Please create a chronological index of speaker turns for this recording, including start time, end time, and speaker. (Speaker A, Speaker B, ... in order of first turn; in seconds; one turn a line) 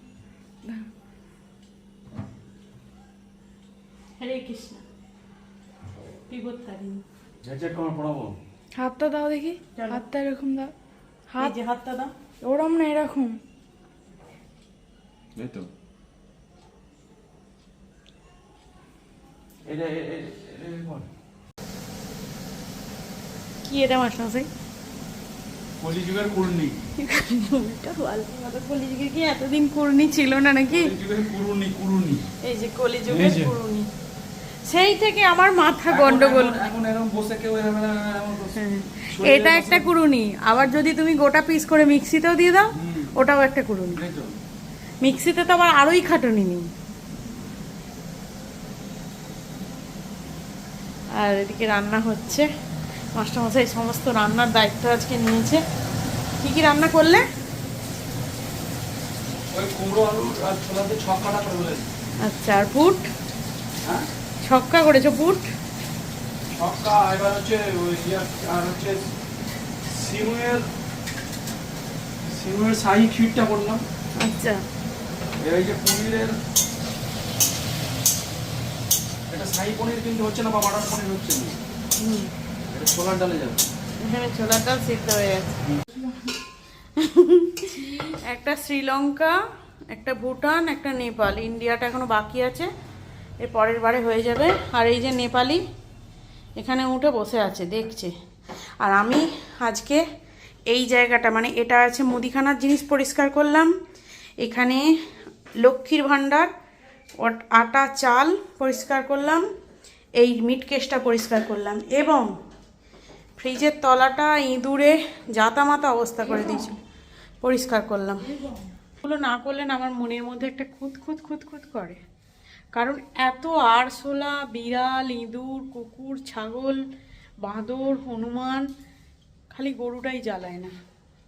Speaker A: 4.2-4.8
Speaker A: 6.3-7.0
Speaker B: 7.4-8.4
Speaker C: 8.8-10.7
Speaker A: 9.8-10.0
Speaker A: 11.4-12.1
Speaker C: 12.4-13.4
Speaker B: 15.4-15.7
Speaker B: 19.6-21.1
Speaker A: 23.6-24.5
Speaker B: 25.8-26.8
Speaker A: 27.0-30.9
Speaker B: 30.7-32.3
Speaker A: 32.4-33.9
Speaker B: 33.1-33.5
Speaker A: 34.7-36.6
Speaker B: 35.9-38.6
Speaker A: 38.6-44.0
Speaker B: 39.1-39.9
Speaker B: 42.7-43.1
Speaker B: 44.0-44.4
Speaker A: 45.0-46.7
Speaker A: 51.2-52.5
Speaker A: 53.1-55.6
Speaker A: 56.4-57.2
Speaker B: 59.5-61.9
Speaker A: 62.2-63.1
Speaker B: 63.8-64.1
Speaker A: 64.4-65.5
Speaker B: 66.5-69.1
Speaker B: 69.9-70.7
Speaker B: 72.2-73.8
Speaker A: 74.2-74.6
Speaker B: 75.4-76.4
Speaker B: 79.3-81.6
Speaker A: 82.0-82.3
Speaker B: 82.7-83.7
Speaker A: 84.0-85.6
Speaker A: 87.0-89.3
Speaker A: 89.9-92.7
Speaker A: 93.4-95.6
Speaker A: 96.6-98.1
Speaker A: 98.8-100.0
Speaker A: 100.7-103.7
Speaker A: 104.4-104.9
Speaker A: 105.6-106.5
Speaker A: 107.2-109.5
Speaker A: 110.2-112.3
Speaker A: 113.4-116.8
Speaker A: 117.4-118.3
Speaker A: 119.0-122.0
Speaker A: 122.8-126.8
Speaker A: 127.4-128.7
Speaker A: 129.5-130.7